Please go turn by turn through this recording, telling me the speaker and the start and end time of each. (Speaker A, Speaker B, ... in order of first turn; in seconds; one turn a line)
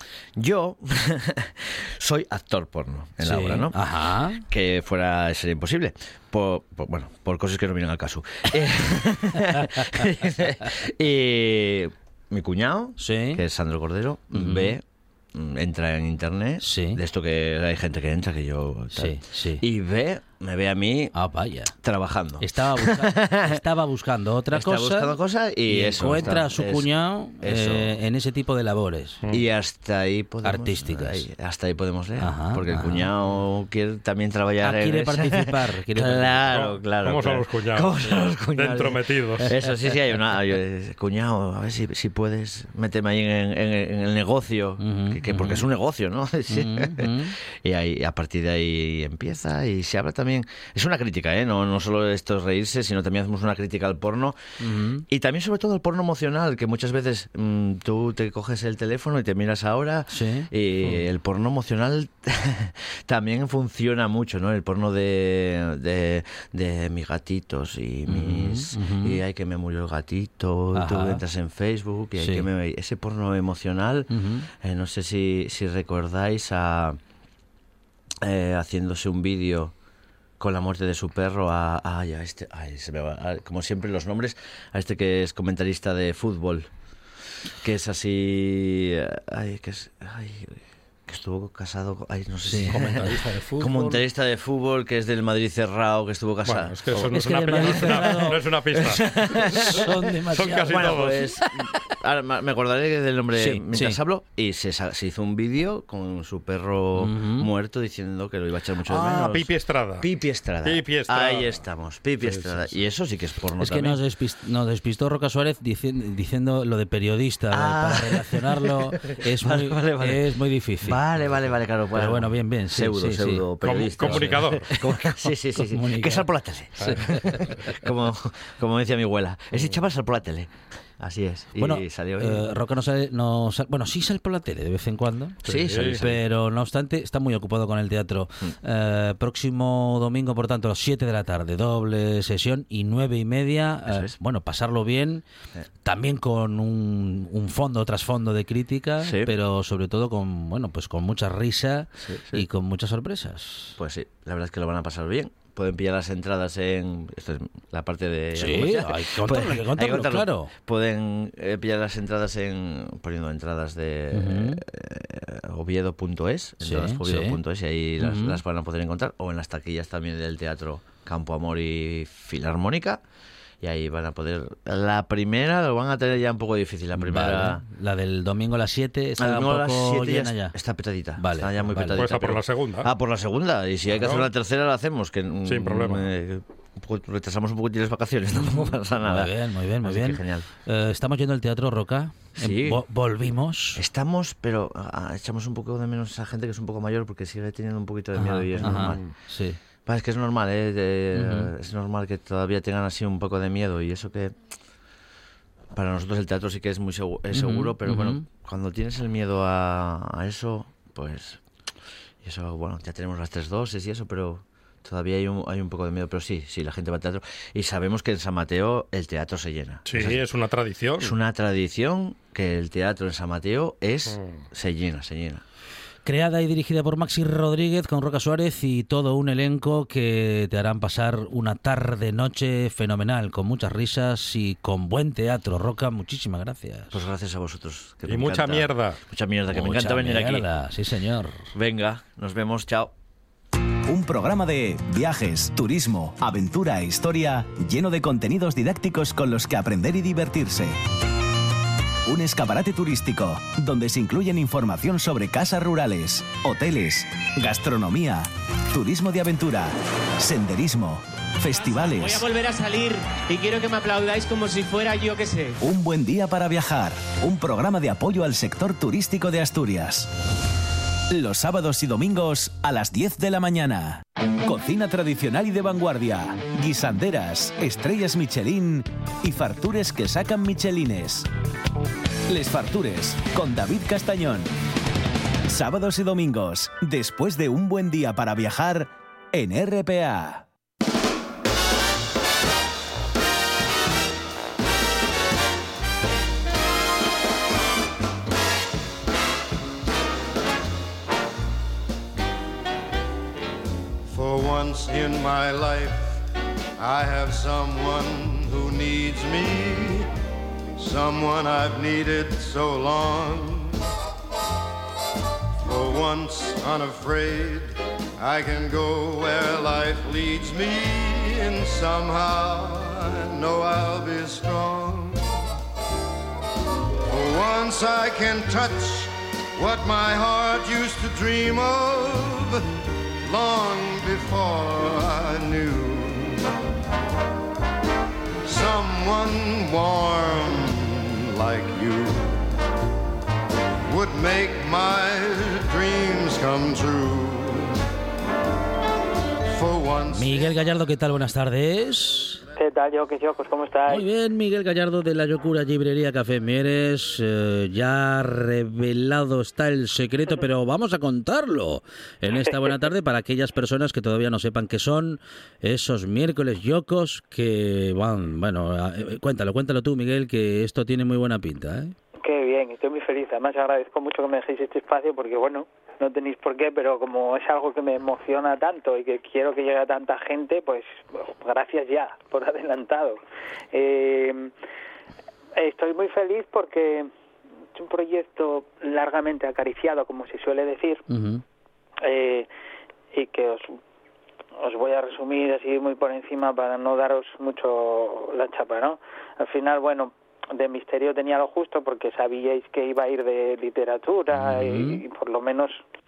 Speaker A: 0.3-21.1
Speaker B: 3.2-4.4
Speaker B: 13.0-13.4
Speaker B: 14.3-14.8
Speaker B: 16.6-17.0
Speaker B: 18.9-19.6
Speaker B: 21.1-21.8
Speaker A: 21.8-23.6
Speaker B: 22.4-25.1
Speaker A: 24.5-27.9
Speaker B: 25.7-29.2
Speaker A: 29.3-54.4
Speaker B: 30.4-31.2
Speaker B: 32.2-33.1
Speaker B: 34.6-36.4
Speaker C: 36.5-39.5
Speaker B: 44.8-45.6
Speaker B: 46.5-47.3
Speaker B: 54.6-55.0
Speaker A: 55.0-77.0
Speaker B: 60.1-60.5
Speaker B: 68.1-69.2
Speaker B: 70.7-71.2
Speaker B: 72.2-72.5
Speaker B: 74.1-74.5
Speaker A: 78.2-79.7
Speaker A: 80.4-86.7
Speaker A: 87.6-98.0
Speaker B: 92.4-93.9
Speaker C: 92.7-93.4
Speaker C: 96.5-99.8
Speaker B: 97.1-98.4
Speaker A: 98.8-99.9
Speaker B: 99.5-101.5
Speaker C: 100.3-101.2
Speaker A: 100.4-114.0
Speaker B: 103.4-104.0
Speaker B: 107.0-107.5
Speaker C: 108.9-110.1
Speaker C: 110.6-111.6
Speaker C: 112.2-112.8
Speaker B: 113.6-121.0
Speaker A: 117.5-132.5
Speaker B: 121.9-123.4
Speaker C: 123.6-124.8
Speaker B: 124.0-124.4
Speaker B: 125.5-126.3
Speaker B: 126.8-127.5
Speaker C: 126.8-127.0
Speaker B: 131.6-135.4
Speaker C: 135.4-136.0
Speaker A: 135.4-136.2
Speaker B: 136.0-145.2
Speaker A: 143.9-144.1
Speaker B: 145.8-153.8
Speaker A: 149.0-149.3
Speaker A: 152.0-152.4
Speaker A: 153.8-173.0
Speaker B: 158.3-160.5
Speaker B: 164.1-164.6
Speaker B: 166.6-167.4
Speaker B: 168.0-168.4
Speaker A: 173.6-177.6
Speaker B: 176.9-180.5
Speaker A: 179.2-190.4
Speaker B: 181.2-182.0
Speaker C: 182.0-182.9
Speaker C: 183.9-184.3
Speaker C: 185.4-186.1
Speaker B: 188.5-193.8
Speaker A: 192.4-192.8
Speaker A: 193.8-199.1
Speaker B: 198.2-199.6
Speaker C: 198.6-199.1
Speaker A: 199.8-204.3
Speaker B: 201.1-201.5
Speaker A: 205.7-211.4
Speaker B: 207.3-208.2
Speaker A: 212.2-220.2
Speaker C: 219.8-221.1
Speaker A: 221.0-225.4
Speaker C: 224.1-224.4
Speaker B: 226.0-237.0
Speaker A: 236.9-240.5
Speaker C: 238.1-239.0
Speaker B: 239.5-241.5
Speaker A: 241.5-242.9
Speaker D: 243.9-250.8
Speaker D: 252.1-262.3
Speaker E: 261.8-265.6
Speaker D: 265.6-270.1
Speaker D: 271.1-281.2
Speaker D: 282.3-284.5
Speaker D: 285.5-290.4
Speaker F: 304.1-306.2
Speaker F: 306.8-310.1
Speaker F: 310.8-313.8
Speaker F: 315.6-325.4
Speaker F: 327.1-332.6
Speaker F: 333.2-336.4
Speaker F: 338.4-342.4
Speaker F: 343.9-347.8
Speaker F: 349.5-350.5
Speaker B: 350.1-352.4
Speaker G: 352.6-354.0
Speaker B: 353.9-371.9
Speaker G: 362.4-362.7
Speaker G: 372.2-383.2
Speaker G: 383.7-384.5
Speaker G: 385.6-387.1
Speaker G: 387.7-391.0
Speaker B: 391.1-391.4
Speaker G: 392.0-392.5
Speaker G: 393.1-393.8
Speaker G: 394.6-405.8
Speaker B: 404.3-405.0